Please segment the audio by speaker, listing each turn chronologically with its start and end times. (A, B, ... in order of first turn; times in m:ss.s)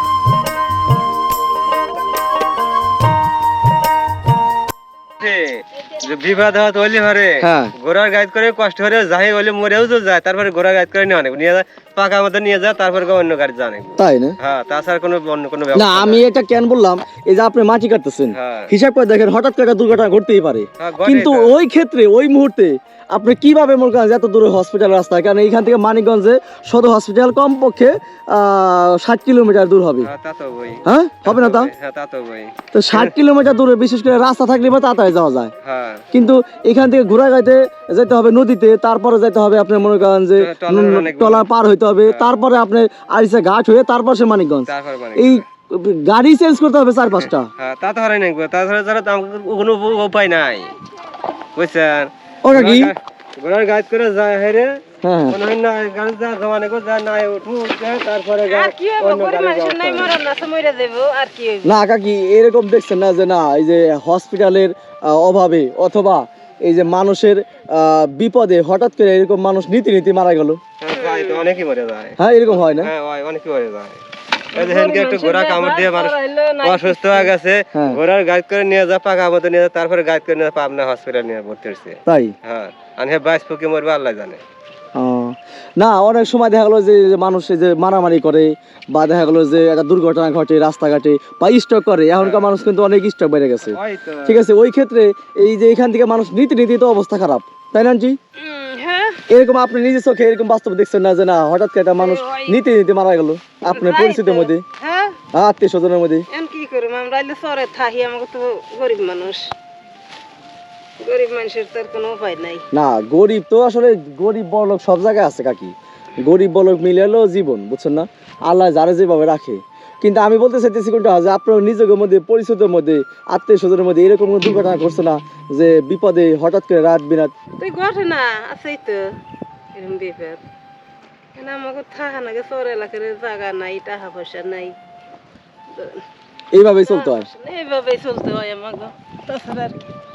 0:05.2-0:16.2 A
0:07.4-0:07.7 B
0:14.0-0:14.4 B
0:15.7-0:30.1 B
0:18.3-0:18.7 A
0:20.8-0:21.5 A
0:30.0-0:33.1 A
0:30.8-0:31.7 B
0:32.7-0:35.5 B
0:35.6-0:36.0 A
0:36.1-0:47.5 B
0:40.4-0:41.4 A
0:44.6-0:45.4 A
0:47.6-0:50.7 A
0:51.6-0:54.7 A
0:52.4-0:52.9 B
0:55.0-0:55.4 B
0:55.3-1:00.1 A
0:58.5-1:01.7 C
1:01.6-1:10.6 B
1:10.8-1:14.0 A
1:10.9-1:11.5 C
1:12.2-1:12.9 B
1:14.5-1:24.4 A
1:14.5-1:17.3 C
1:17.7-1:18.0 B
1:22.1-1:22.3 B
1:25.0-1:38.2 B
1:32.2-1:32.4 A
1:38.4-1:39.2 C
1:39.3-1:44.6 B
1:42.0-1:42.6 C
1:43.7-1:45.2 C
1:45.3-1:46.2 B
1:46.3-1:49.4 C
1:51.0-1:52.6 C
1:52.7-2:07.3 B
2:07.6-2:09.0 C
2:09.7-2:10.4 C
2:11.4-2:14.7 C
2:15.7-2:16.0 C
2:16.5-2:17.2 B
2:16.8-2:19.8 C